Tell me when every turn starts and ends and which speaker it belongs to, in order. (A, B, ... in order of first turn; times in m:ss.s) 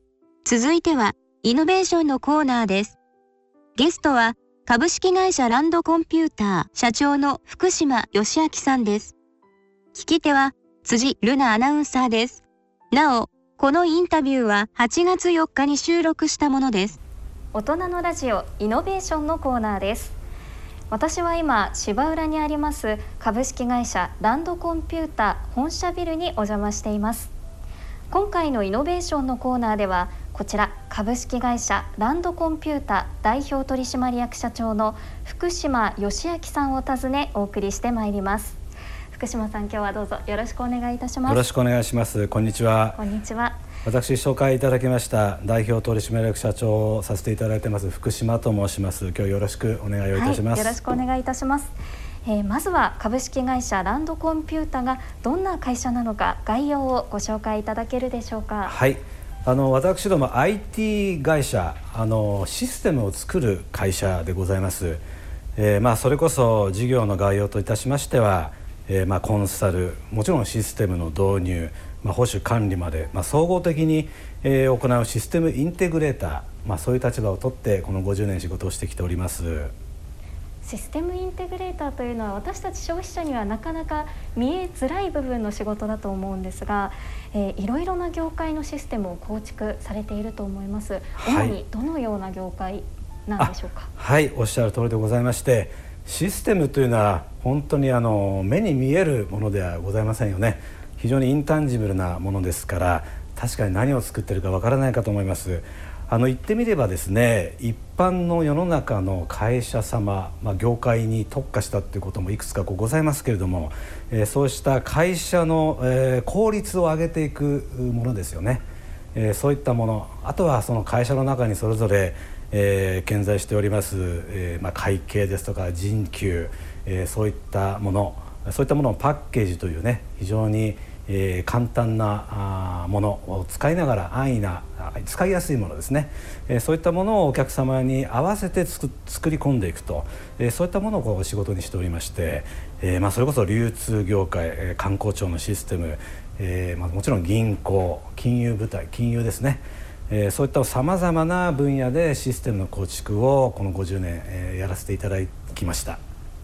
0:00.4-0:03.0 A
0:03.8-0:09.1 A
0:09.9-0:17.0 A
0:17.5-0:20.2 B
0:20.9-0:27.3 B
0:28.1-0:38.6 B
0:39.1-0:41.4 B
0:41.2-0:43.0 C
0:42.9-0:43.6 B
0:43.8-0:50.8 C
0:50.1-0:51.7 B
0:52.2-0:58.8 B
0:58.6-1:05.0 C
1:05.6-1:19.7 C
1:20.6-1:33.9 B
1:31.2-1:31.6 C
1:33.4-2:36.0 C